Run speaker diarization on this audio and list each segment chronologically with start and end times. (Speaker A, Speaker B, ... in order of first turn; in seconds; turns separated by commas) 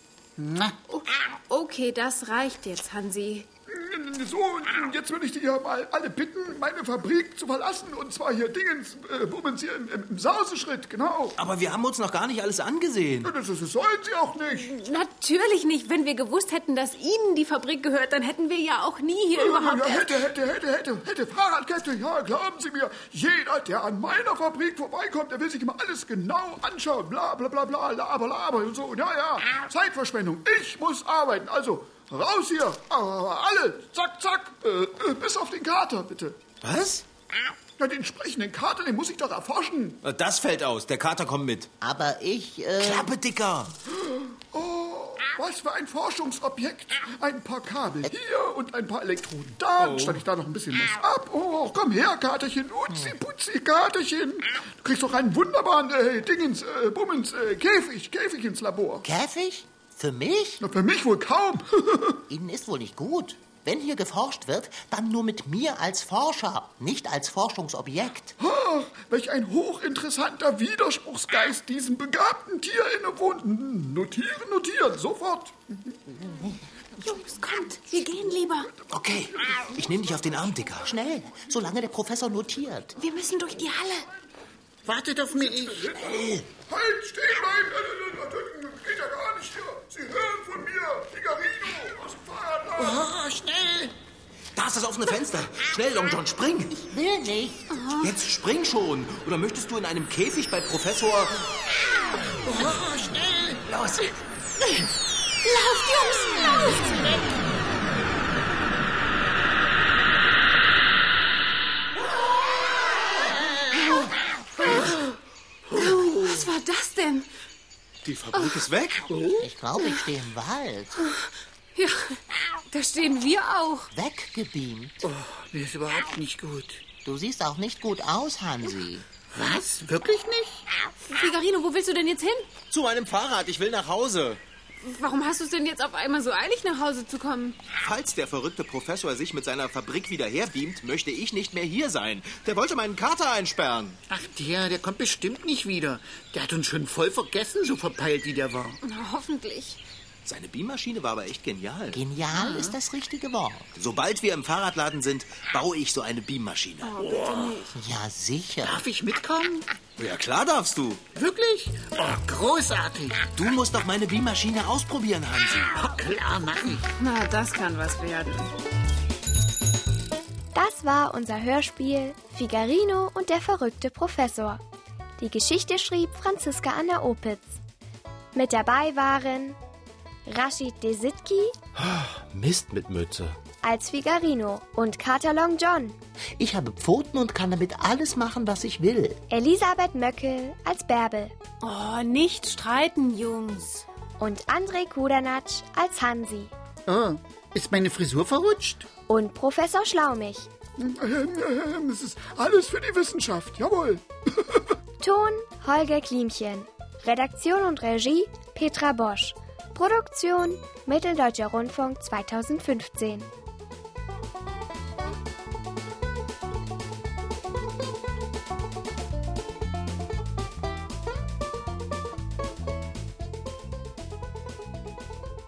Speaker A: 0.4-0.8, Speaker B: 0.9-3.5, Speaker C: 3.7-11.3, Speaker D: 11.3-13.3, Speaker C: 13.2-14.7, Speaker B: 14.6-20.2, Speaker C: 19.3-36.4, Speaker D: 36.6-37.0, Speaker C: 37.8-40.0, Speaker D: 40.0-41.7, Speaker E: 41.8-43.1, Speaker D: 42.8-43.8, Speaker C: 43.9-59.0, Speaker D: 49.8-50.2, Speaker E: 52.9-53.1, Speaker E: 59.0-60.6, Speaker C: 60.6-62.2, Speaker E: 62.3-68.3, Speaker C: 68.4-75.7, Speaker B: 77.0-78.7, Speaker C: 78.5-80.5, Speaker D: 78.9-80.9, Speaker E: 80.8-83.0, Speaker B: 83.0-84.1, Speaker A: 84.8-85.9, Speaker C: 85.3-93.1, Speaker D: 86.0-86.5, Speaker A: 92.8-93.9, Speaker D: 94.5-96.8, Speaker E: 96.7-97.8, Speaker B: 97.7-98.1, Speaker D: 98.0-101.6, Speaker A: 102.5-103.6, Speaker D: 103.7-104.2, Speaker B: 105.4-107.0, Speaker A: 114.6-114.9, Speaker B: 114.6-115.0, Speaker A: 115.7-116.5, Speaker B: 115.7-117.3, Speaker D: 118.0-119.1, Speaker A: 119.1-119.5, Speaker E: 119.4-121.0, Speaker B: 121.0-123.9, Speaker E: 123.9-125.0, Speaker A: 125.0-126.8, Speaker E: 127.0-129.1, Speaker A: 129.3-130.7, Speaker B: 131.1-132.5, Speaker D: 132.7-134.4, Speaker B: 134.8-137.6, Speaker D: 137.8-144.0, Speaker A: 144.1-148.8, Speaker B: 148.8-149.8, Speaker D: 150.2-152.0, Speaker E: 151.9-153.7, Speaker A: 152.3-152.8, Speaker D: 153.7-157.0, Speaker B: 156.8-157.8, Speaker A: 157.1-157.6, Speaker E: 157.7-158.8, Speaker A: 158.6-159.7, Speaker D: 160.0-161.0, Speaker A: 161.1-163.2, Speaker D: 163.3-165.7, Speaker A: 165.7-166.8, Speaker B: 166.9-168.5, Speaker F: 170.5-174.6, Speaker F: 175.2-177.5, Speaker F: 178.3-179.6, Speaker F: 180.3-181.5, Speaker D: 181.8-183.3, Speaker F: 183.6-185.9, Speaker E: 186.4-189.2, Speaker F: 189.3-191.3, Speaker B: 191.6-193.8, Speaker F: 194.2-196.5, Speaker A: 196.9-198.9, Speaker F: 199.1-200.5, Speaker C: 200.8-204.7, Speaker F: 205.0-213.3